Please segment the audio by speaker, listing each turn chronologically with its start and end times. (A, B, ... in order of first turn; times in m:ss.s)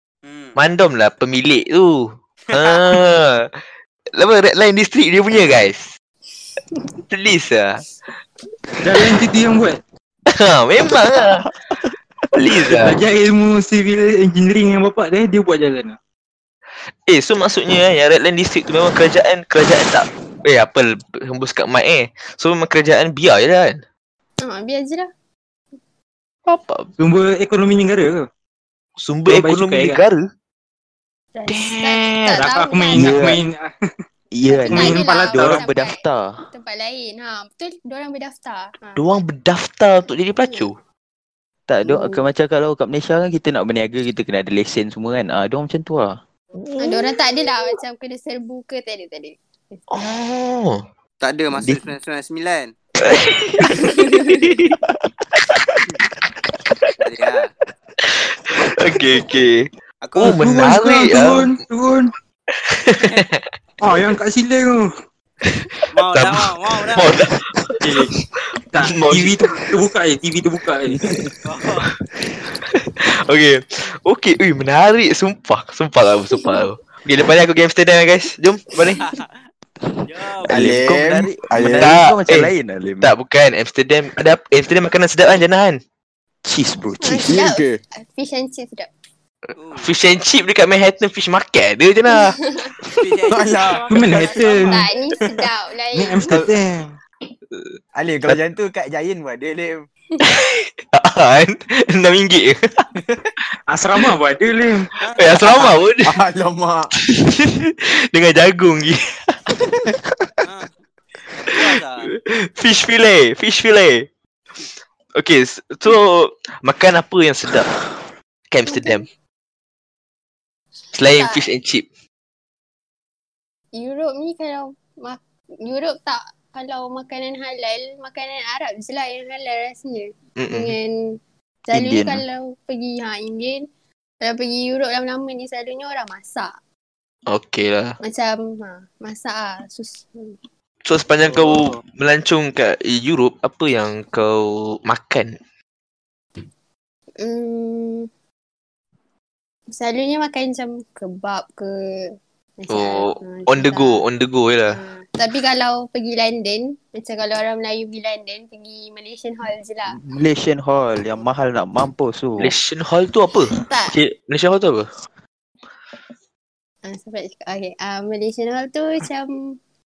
0:00.2-0:00.6 A
0:00.6-0:03.5 B
0:02.5-0:03.0 A
0:04.1-0:05.9 B
0:07.1-0:07.8 B
0:08.8-0:09.8 C
0:10.3-0:11.4 B
0:12.4-0:13.0 B
0:12.7-0:16.0 C
0:17.1-0:23.8 B
0:24.4-0:25.1 D
0:26.4-0:26.9 B
0:27.0-0:28.2 C
0:29.0-0:30.2 B
0:29.3-0:30.0 C
0:31.3-0:33.3 D
0:31.5-0:32.4 B
0:32.4-0:33.7 C
0:33.0-0:33.4 E
0:34.3-0:36.4 E
0:34.5-0:39.1 D
0:34.7-0:35.6 C
0:39.0-0:40.8 B
0:40.4-0:40.7 D
0:41.7-0:46.2 E
0:41.8-0:42.2 D
0:46.6-0:47.2 B
0:46.8-0:49.9 D
0:49.9-0:50.8 B
0:51.2-0:52.7 A
0:51.5-0:51.8 E
0:53.0-0:53.7 B
0:53.9-0:54.4 E
0:54.3-0:54.6 B
0:57.0-0:57.5 A
0:58.0-1:01.5 B
1:00.0-1:00.4 A
1:00.2-1:02.1 C
1:02.5-1:03.5 B
1:03.8-1:04.8 C
1:05.4-1:08.0 B
1:05.9-1:07.2 A
1:07.8-1:08.1 C
1:08.7-1:11.0 C
1:08.9-1:09.4 B
1:11.4-1:11.9 A
1:12.6-1:19.0 B
1:19.0-1:19.3 A
1:20.0-1:20.7 A
1:20.5-1:21.9 F
1:20.5-1:23.1 E
1:21.7-1:25.8 B
1:26.4-1:27.3 E
1:27.0-1:28.9 D
1:27.3-1:27.8 F
1:29.6-1:29.9 A
1:29.8-1:32.4 B
1:32.1-1:32.7 D
1:32.8-1:35.1 A
1:33.3-1:34.4 F
1:33.9-1:34.8 C
1:34.6-1:36.3 D
1:36.0-1:36.9 C
1:37.9-1:39.8 F
1:40.2-1:42.9 B
1:43.7-1:44.9 C
1:45.0-1:45.4 A
1:45.2-1:46.1 B
1:45.4-1:46.9 F
1:47.1-1:49.5 B
1:50.4-1:50.7 A
1:51.3-1:52.1 A
1:51.5-1:51.8 B
1:52.3-1:54.1 B
1:55.2-1:57.7 B
1:58.5-1:59.0 B
1:58.7-1:59.0 D
2:00.9-2:01.8 B
2:01.0-2:01.5 D
2:03.7-2:13.7 D
2:10.4-2:10.7 B
2:11.7-2:12.2 E
2:14.2-2:16.6 D
2:17.3-2:18.0 B
2:18.0-2:20.4 D
2:20.8-2:25.4 B
2:27.2-2:28.1 D
2:29.7-2:34.0 D
2:32.7-2:34.8 B
2:34.7-2:40.0 D
2:39.8-2:42.5 E
2:42.4-2:44.9 B
2:43.6-2:44.0 D
2:46.8-2:49.6 D